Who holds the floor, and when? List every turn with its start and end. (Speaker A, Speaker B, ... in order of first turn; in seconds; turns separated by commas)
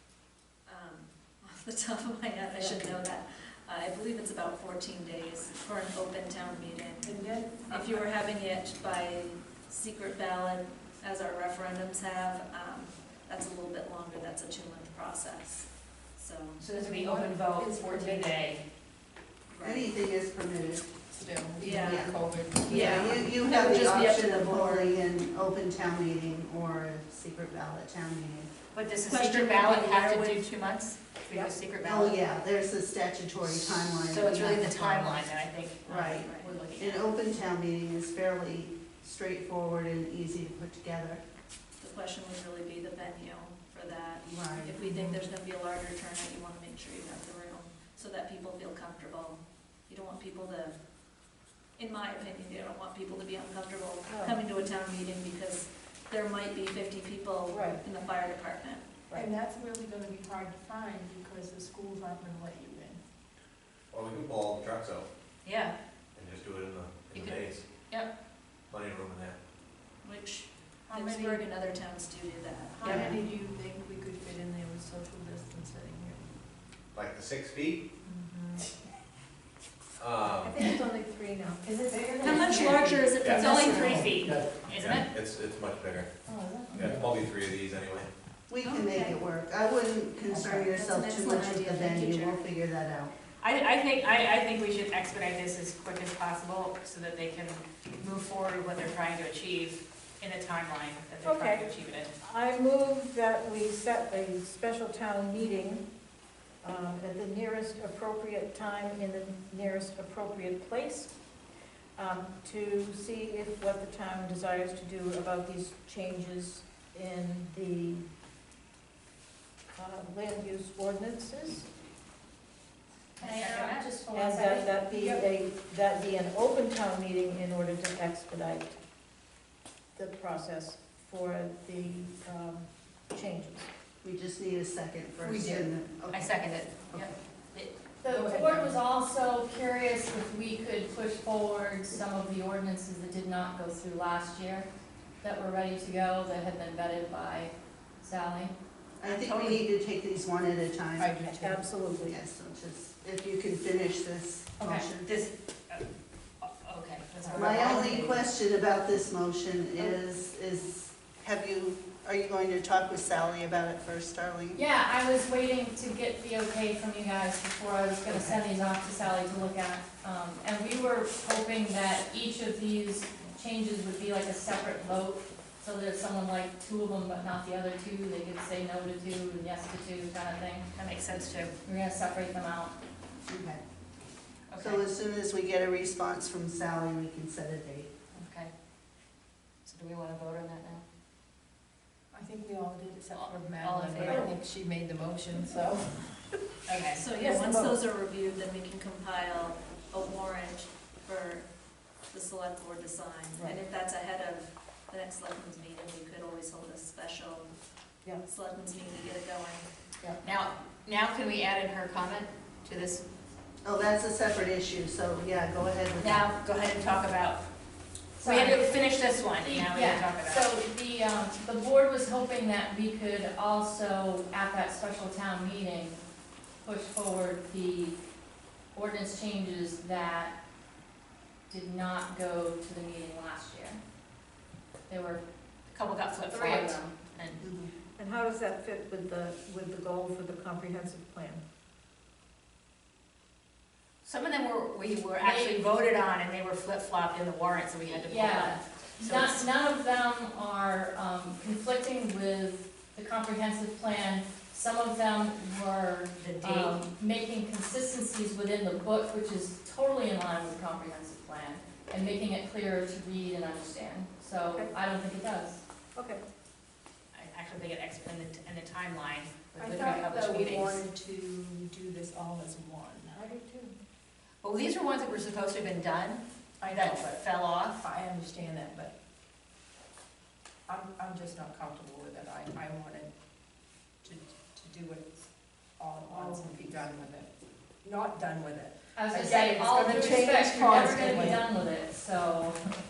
Speaker A: 0.7-16.6, Speaker B: 7.0-7.9, Speaker C: 16.6-18.6, Speaker B: 16.6-18.3, Speaker A: 19.5-19.9, Speaker D: 19.6-20.9, Speaker B: 21.1-23.4, Speaker A: 21.6-24.9, Speaker D: 21.7-28.5, Speaker C: 22.8-23.1, Speaker C: 28.7-32.3, Speaker B: 29.1-30.4, Speaker D: 31.8-35.3, Speaker C: 33.5-37.1, Speaker D: 35.8-41.2, Speaker A: 36.1-36.6, Speaker A: 41.8-50.7, Speaker D: 44.2-44.8, Speaker E: 44.8-45.2, Speaker A: 51.8-58.9, Speaker E: 54.1-54.4, Speaker E: 57.5-57.8, Speaker B: 59.1-63.0, Speaker F: 63.9-65.1, Speaker A: 65.4-65.7, Speaker F: 66.2-67.6, Speaker F: 68.7-69.3, Speaker A: 70.0-73.1, Speaker B: 70.9-71.5, Speaker B: 72.7-76.3, Speaker D: 72.8-73.2, Speaker F: 76.9-77.8, Speaker B: 78.1-78.7, Speaker F: 80.0-80.5, Speaker E: 80.4-84.1, Speaker C: 82.2-85.1, Speaker A: 82.4-82.8, Speaker F: 83.2-83.5, Speaker F: 84.8-86.1, Speaker E: 86.2-86.9, Speaker F: 86.7-88.1, Speaker D: 88.5-93.1, Speaker A: 88.6-89.2, Speaker A: 90.3-92.5, Speaker C: 93.4-102.1, Speaker E: 101.2-101.7, Speaker E: 102.2-105.8, Speaker E: 106.6-111.1, Speaker E: 112.0-118.0, Speaker E: 119.8-121.7, Speaker C: 123.2-124.0, Speaker G: 123.5-124.8, Speaker E: 124.1-128.8, Speaker B: 124.9-125.2, Speaker E: 129.9-133.7, Speaker D: 134.0-136.3, Speaker C: 135.2-137.7, Speaker G: 138.0-144.7, Speaker B: 138.0-138.8, Speaker G: 145.2-148.5, Speaker D: 149.0-151.1, Speaker C: 149.0-149.7, Speaker B: 151.0-151.7, Speaker E: 151.2-152.2, Speaker D: 152.1-155.1, Speaker G: 154.6-154.9, Speaker C: 155.0-155.8, Speaker C: 156.4-158.3, Speaker B: 157.2-157.9, Speaker D: 157.3-164.6, Speaker G: 164.5-180.7, Speaker C: 168.1-168.4, Speaker C: 180.7-181.5, Speaker G: 181.6-182.7, Speaker D: 183.3-183.6, Speaker C: 184.5-184.8, Speaker D: 184.6-187.9, Speaker C: 188.1-188.5, Speaker C: 189.7-190.8, Speaker B: 192.1-196.3, Speaker C: 193.1-194.3, Speaker C: 196.7-197.1, Speaker A: 197.0-201.5, Speaker E: 197.2-197.7, Speaker B: 197.3-197.8, Speaker A: 202.1-207.6, Speaker A: 208.2-209.7, Speaker C: 210.2-213.0, Speaker D: 213.6-216.3, Speaker C: 216.0-217.4, Speaker G: 218.2-218.8, Speaker C: 218.2-220.4, Speaker G: 219.3-226.0, Speaker G: 226.6-228.0, Speaker G: 228.7-230.4, Speaker G: 231.5-233.8, Speaker G: 234.9-235.2, Speaker C: 235.7-237.4, Speaker G: 236.3-236.9, Speaker D: 237.4-237.7, Speaker E: 238.0-241.4, Speaker C: 244.0-249.5, Speaker G: 245.3-245.6, Speaker G: 248.0-265.6, Speaker C: 256.2-256.8, Speaker E: 264.5-264.7, Speaker E: 265.9-266.2, Speaker C: 267.1-270.8, Speaker B: 269.6-273.1, Speaker E: 273.1-273.7, Speaker C: 274.4-277.8, Speaker B: 276.6-277.1, Speaker B: 277.8-278.9, Speaker B: 280.7-283.1, Speaker B: 284.0-287.3, Speaker C: 286.2-286.7, Speaker B: 287.8-291.4, Speaker G: 288.9-292.7